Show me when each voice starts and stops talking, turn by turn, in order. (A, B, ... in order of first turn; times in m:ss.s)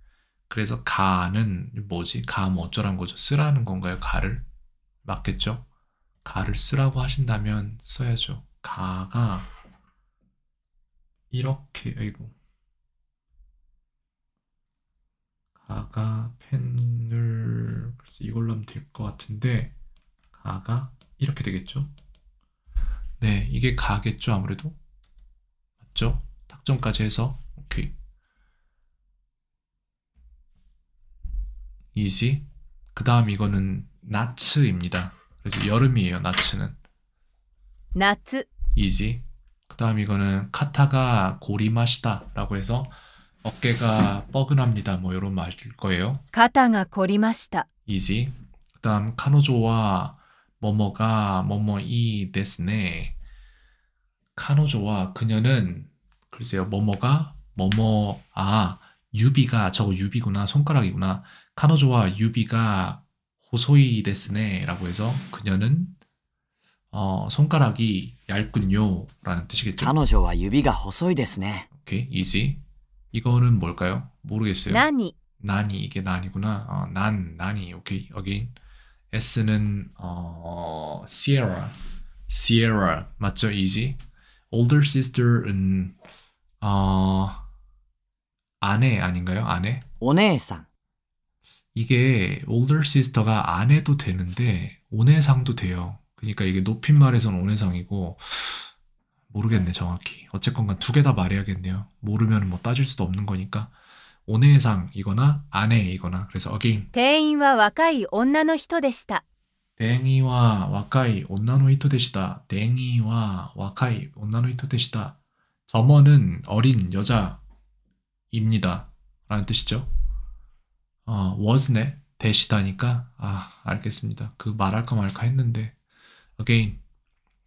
0:00.5-0:04.4 A
0:05.0-0:05.6 A
0:06.2-0:09.5 A
0:11.3-0:12.3 A
0:15.6-0:19.7 A
0:20.3-0:21.9 A
0:23.2-0:24.8 A
0:25.8-0:27.9 A
0:31.9-0:36.8 A
0:37.9-0:38.5 B
0:38.7-0:46.2 A
0:46.3-0:47.7 B
0:47.9-0:53.1 A
0:54.4-1:06.0 A
1:06.9-1:10.0 A
1:09.8-1:11.7 C
1:11.7-1:12.6 A
1:13.1-1:14.9 A
1:14.7-1:15.1 B
1:15.4-1:18.6 A
1:19.1-1:21.7 A
1:22.3-1:24.0 A
1:24.5-1:26.0 A
1:26.6-1:27.5 A
1:28.6-1:29.8 A
1:30.0-1:30.7 C
1:31.7-1:38.7 A
1:39.3-1:43.7 A
1:44.2-1:46.9 A
1:46.9-1:49.2 B
1:49.8-1:55.2 A
1:55.7-1:57.4 A
1:58.3-1:59.9 A
2:01.0-2:05.8 A
2:06.4-2:06.8 A